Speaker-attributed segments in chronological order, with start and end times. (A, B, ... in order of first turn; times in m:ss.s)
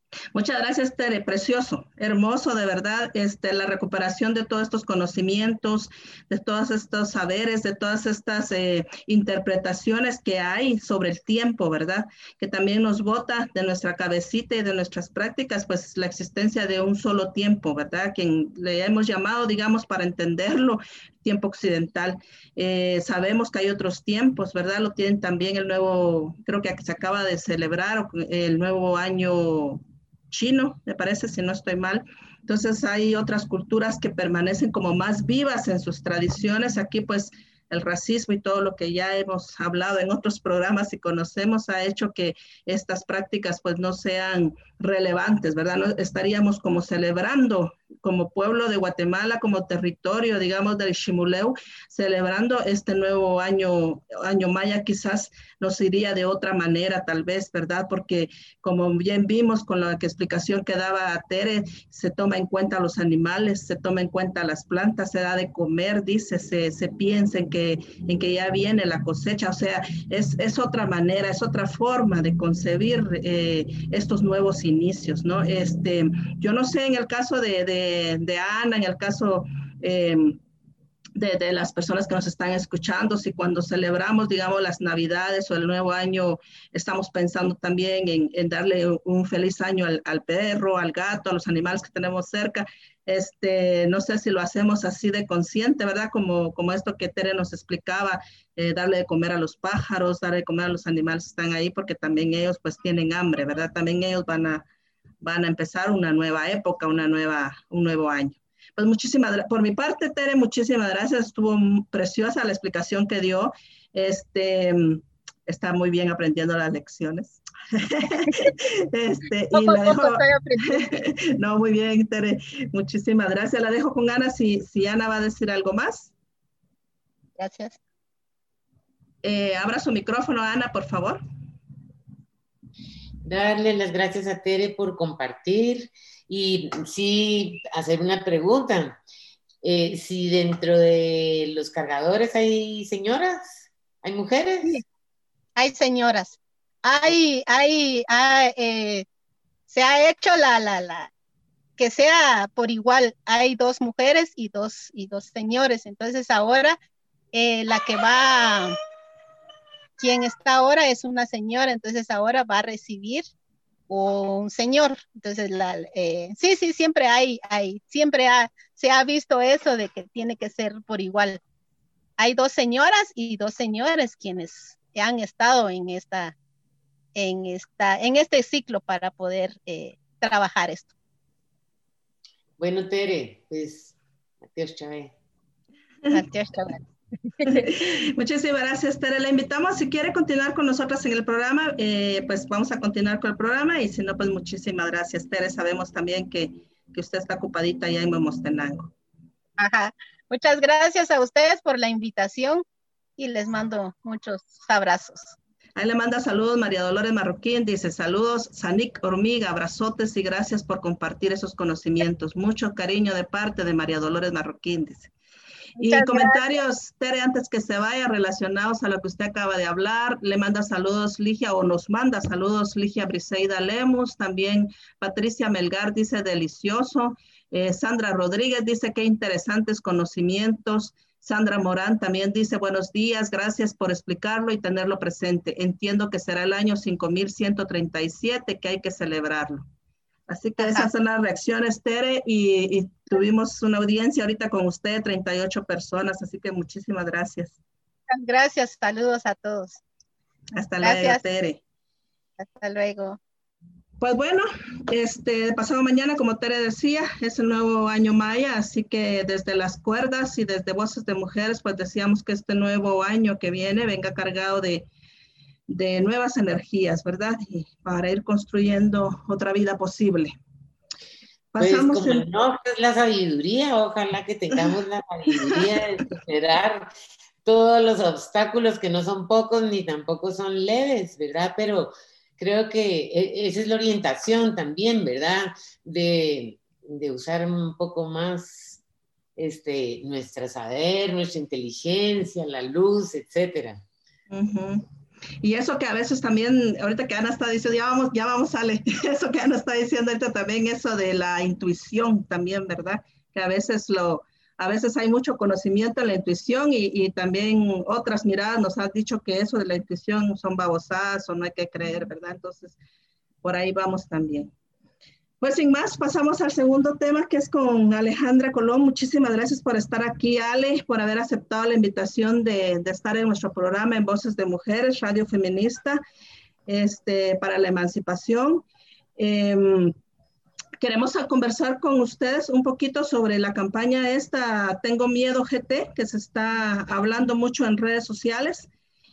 0:00.3-1:20.4 A
1:21.2-1:44.6 A
1:45.2-2:06.1 A
1:59.5-2:00.9 B
2:07.4-2:07.8 B
2:09.2-2:11.2 A
2:13.2-2:19.0 C
2:19.6-2:24.8 C
2:25.6-2:29.0 B
2:29.7-2:31.1 B
2:31.8-2:36.8 B
2:37.3-2:38.7 B
2:40.0-2:43.2 B
2:43.9-2:51.4 B
2:52.2-2:56.3 B
2:57.1-3:00.9 B
3:02.6-3:03.9 C
3:04.5-3:05.1 C
3:06.1-3:06.8 B
3:07.4-3:07.8 B
3:07.4-3:18.9 A
3:19.6-3:22.6 B
3:23.2-3:25.4 B
3:25.8-3:35.1 A
3:35.8-3:59.6 A
3:35.9-3:36.3 B
4:00.3-4:07.6 A
4:00.6-4:00.9 B
4:08.1-4:09.8 B
4:10.5-4:11.6 A
4:10.8-4:11.2 B
4:12.4-4:13.2 B
4:14.0-4:24.9 A
4:25.7-4:30.4 A
4:31.5-4:32.3 A
4:31.6-4:36.9 C
4:37.4-4:48.8 C
4:49.4-4:53.8 C
4:54.3-4:54.8 A
4:55.4-5:12.8 A
5:13.4-5:14.5 A
5:15.4-5:26.0 A
5:26.6-5:28.6 A
5:29.2-5:29.9 A
5:30.8-5:38.7 A